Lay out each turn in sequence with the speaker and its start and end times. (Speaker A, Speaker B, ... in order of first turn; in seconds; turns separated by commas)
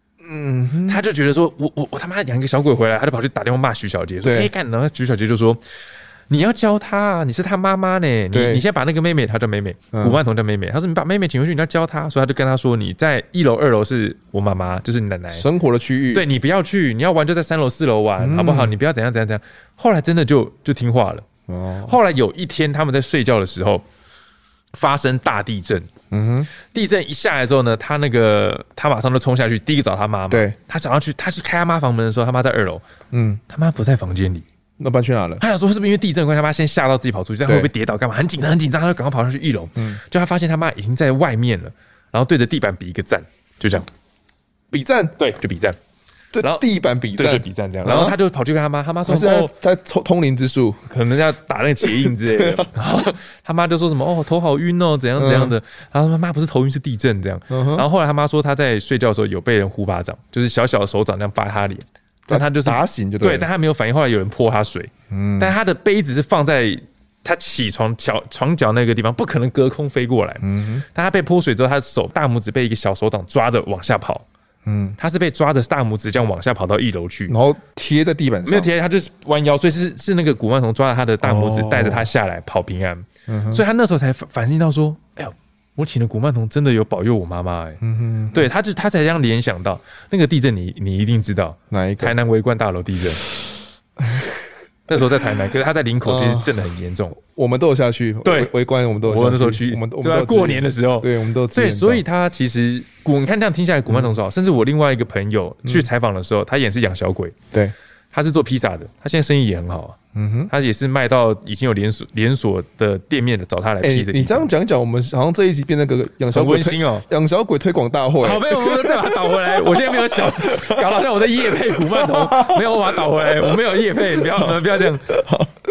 Speaker A: 0.2-1.0, Speaker B: 0.9-5.6, Speaker A: 4.2-4.5, Speaker B: 6.3-15.4, Speaker A: 8.3-8.6, Speaker A: 15.3-16.2, Speaker B: 16.1-21.2, Speaker A: 18.2-18.7, Speaker A: 21.5-21.9, Speaker B: 21.9-23.8, Speaker B: 24.7-25.9, Speaker A: 26.1-26.5, Speaker B: 26.7-32.8, Speaker A: 33.1-33.4, Speaker B: 33.5-34.4, Speaker A: 34.8-35.4, Speaker B: 35.4-43.9, Speaker A: 44.7-45.1, Speaker B: 45.2-45.8, Speaker A: 46.4-48.1, Speaker B: 46.4-49.5, Speaker A: 49.0-50.8, Speaker B: 50.9-74.2, Speaker A: 55.2-55.5, Speaker A: 57.5-57.8, Speaker A: 62.3-63.5, Speaker A: 65.1-65.5, Speaker A: 70.4-70.8, Speaker A: 74.7-74.9, Speaker B: 75.0-77.3, Speaker A: 77.3-78.7, Speaker B: 78.5-87.8, Speaker A: 81.2-82.0, Speaker A: 83.3-83.6, Speaker A: 87.8-88.4, Speaker B: 88.3-93.2, Speaker A: 91.7-92.1, Speaker A: 94.1-94.4, Speaker B: 94.9-97.2, Speaker A: 96.0-96.5, Speaker A: 97.2-102.0, Speaker B: 98.2-98.5, Speaker B: 99.0-107.3, Speaker B: 108.1-110.0, Speaker A: 110.1-110.5, Speaker B: 110.5-114.5, Speaker A: 113.8-120.8, Speaker B: 116.3-117.0, Speaker B: 118.2-125.1, Speaker A: 121.9-123.5, Speaker A: 125.1-125.5